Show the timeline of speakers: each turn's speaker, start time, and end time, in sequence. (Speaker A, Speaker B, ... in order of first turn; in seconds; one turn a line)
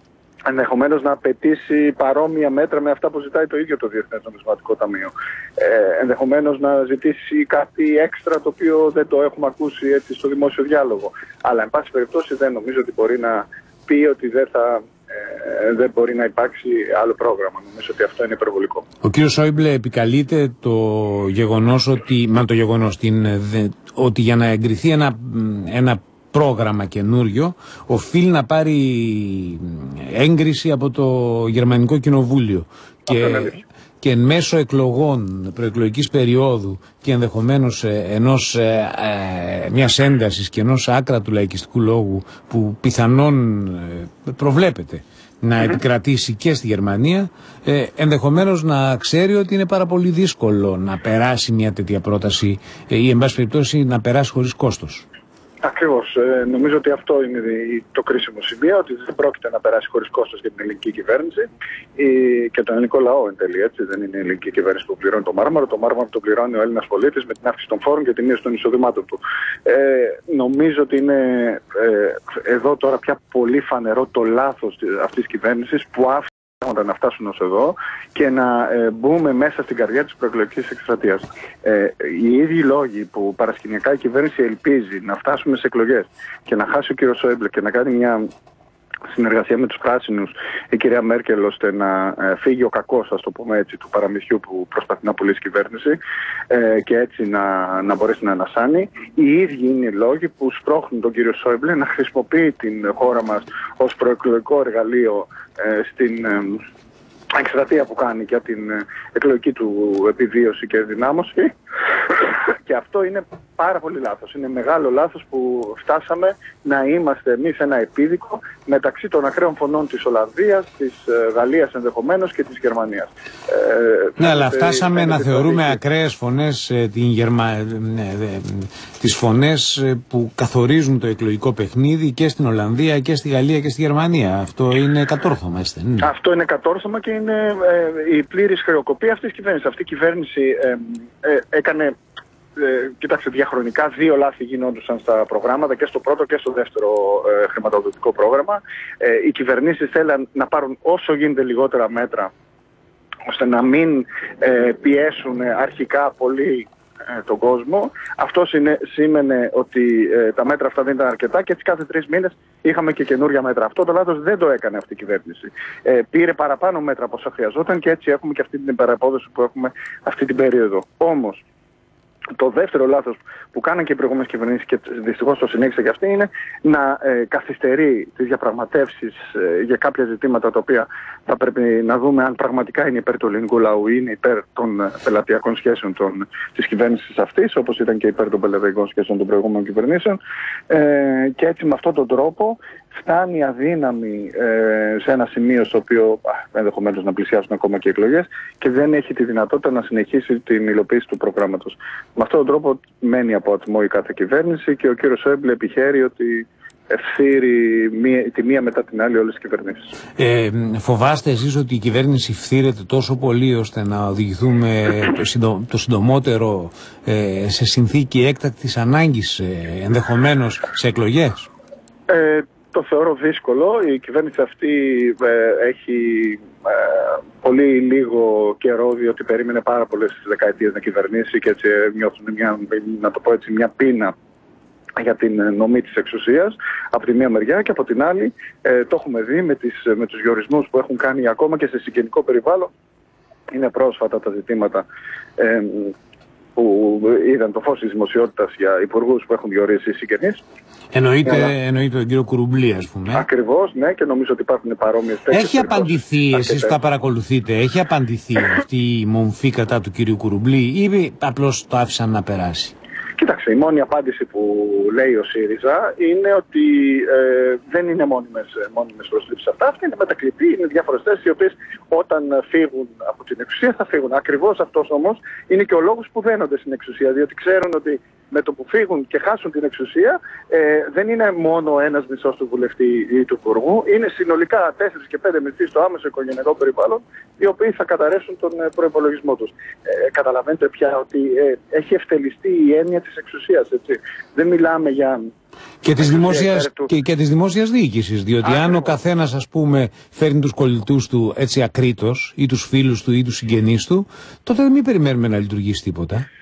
Speaker A: 0.5-18.9
Speaker B: 19.0-55.1
Speaker A: 33.1-33.6
Speaker A: 55.6-88.3
Speaker A: 89.1-96.0
Speaker A: 96.5-106.6
Speaker A: 107.3-111.5
Speaker A: 112.1-125.8
Speaker B: 124.2-136.1
Speaker A: 136.0-141.9
Speaker A: 142.6-152.3
Speaker A: 153.3-171.4
Speaker A: 172.3-209.9
Speaker B: 210.2-221.5
Speaker A: 222.1-234.1
Speaker A: 235.0-242.7
Speaker A: 243.5-244.8
Speaker A: 245.4-245.9
Speaker A: 246.6-250.4
Speaker B: 250.9-253.2
Speaker A: 251.2-251.5
Speaker A: 253.1-256.8
Speaker B: 255.3-262.8
Speaker A: 263.2-295.2
Speaker B: 295.8-306.3
Speaker A: 296.0-296.9
Speaker A: 298.4-298.9